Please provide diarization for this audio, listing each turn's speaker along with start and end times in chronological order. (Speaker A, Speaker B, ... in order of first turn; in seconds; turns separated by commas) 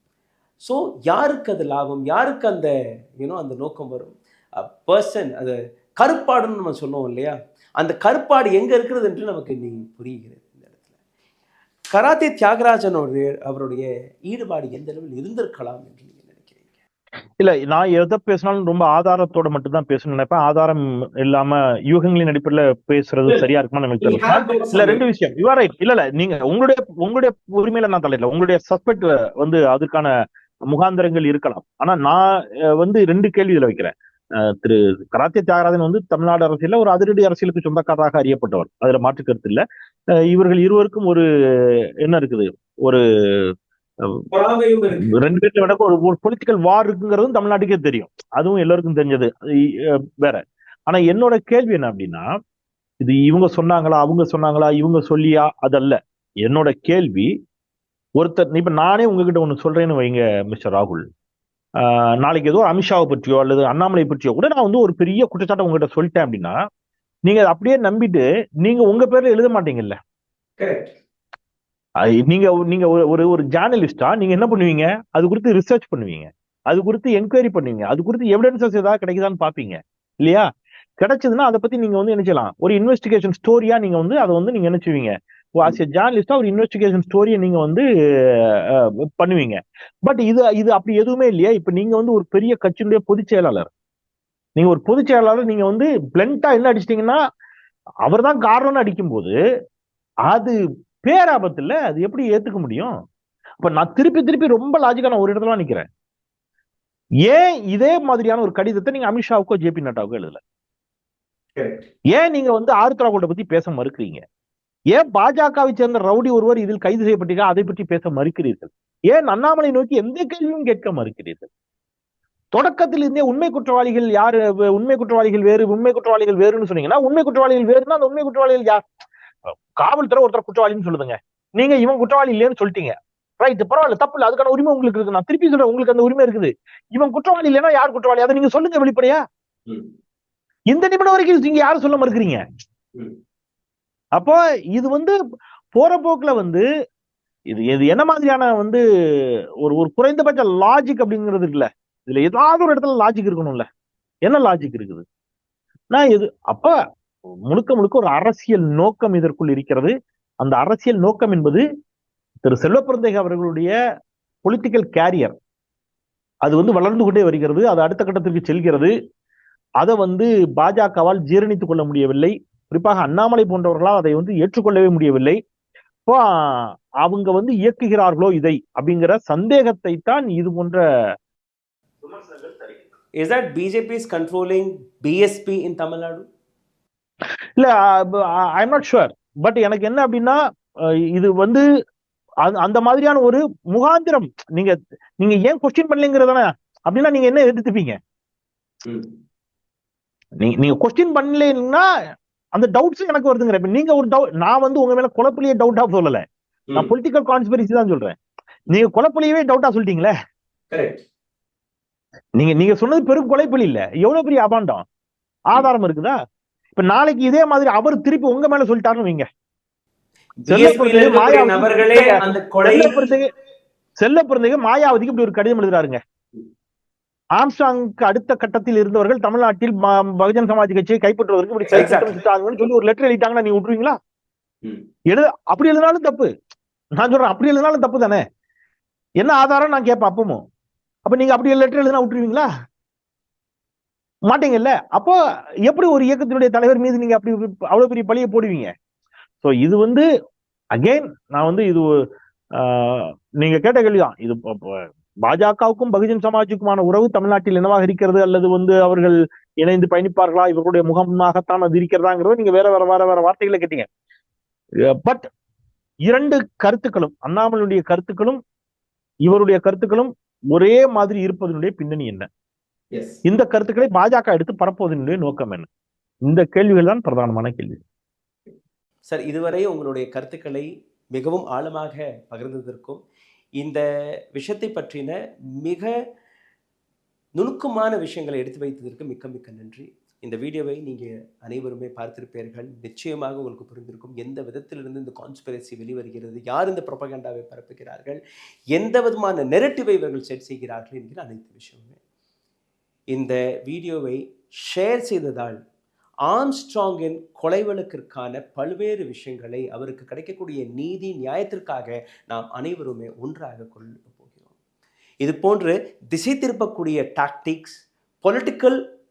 Speaker A: 0.6-10.8, Speaker A: 11.9-16.7, Speaker B: 17.4-30.1, Speaker A: 24.0-25.0, Speaker B: 30.7-39.6, Speaker B: 40.3-41.2, Speaker B: 42.0-44.2, Speaker A: 44.3-45.2, Speaker B: 45.1-52.3, Speaker B: 53.0-57.3, Speaker B: 58.2-61.0, Speaker B: 61.8-66.6, Speaker B: 67.3-70.0, Speaker A: 70.6-70.9, Speaker B: 72.0-80.5, Speaker B: 81.0-87.8, Speaker B: 88.7-93.7, Speaker B: 94.6-97.2, Speaker B: 98.1-99.3, Speaker B: 100.3-102.9, Speaker B: 103.6-105.9, Speaker B: 107.3-110.4, Speaker A: 111.6-111.8, Speaker B: 112.1-114.2, Speaker B: 114.9-121.5, Speaker B: 122.5-128.8, Speaker B: 129.4-139.2, Speaker B: 140.7-142.4, Speaker B: 144.2-145.2, Speaker B: 145.7-146.6, Speaker B: 147.5-148.8, Speaker B: 149.6-153.7, Speaker B: 154.2-155.0, Speaker B: 155.9-156.8, Speaker B: 157.5-161.6, Speaker B: 162.4-163.7, Speaker B: 164.4-165.4, Speaker B: 166.4-168.9, Speaker B: 169.8-175.4, Speaker B: 176.1-180.8, Speaker B: 182.0-182.8, Speaker A: 183.2-186.3, Speaker B: 187.6-191.6, Speaker B: 192.4-198.0, Speaker A: 198.8-199.1, Speaker B: 200.4-201.8, Speaker B: 202.6-206.2, Speaker B: 206.8-208.2, Speaker B: 208.7-210.1, Speaker A: 210.7-211.0, Speaker B: 212.4-214.8, Speaker B: 215.5-216.2, Speaker B: 216.8-219.3, Speaker A: 220.4-223.1, Speaker B: 220.5-223.3, Speaker B: 224.0-226.0, Speaker B: 227.4-234.0, Speaker A: 231.7-232.2, Speaker B: 235.1-236.3, Speaker B: 237.0-238.2, Speaker B: 239.2-240.4, Speaker B: 241.1-242.5, Speaker B: 244.3-245.2, Speaker B: 245.7-248.7, Speaker B: 249.4-250.1, Speaker B: 250.8-251.9, Speaker B: 252.6-263.9, Speaker B: 264.9-265.3, Speaker B: 266.1-268.4, Speaker B: 269.2-272.3, Speaker A: 272.9-273.2, Speaker B: 273.2-275.7, Speaker B: 276.3-277.8, Speaker A: 279.1-283.0, Speaker A: 284.4-285.9, Speaker A: 287.4-298.2, Speaker A: 298.7-302.0, Speaker A: 303.1-305.6, Speaker A: 306.3-314.5, Speaker A: 315.2-318.8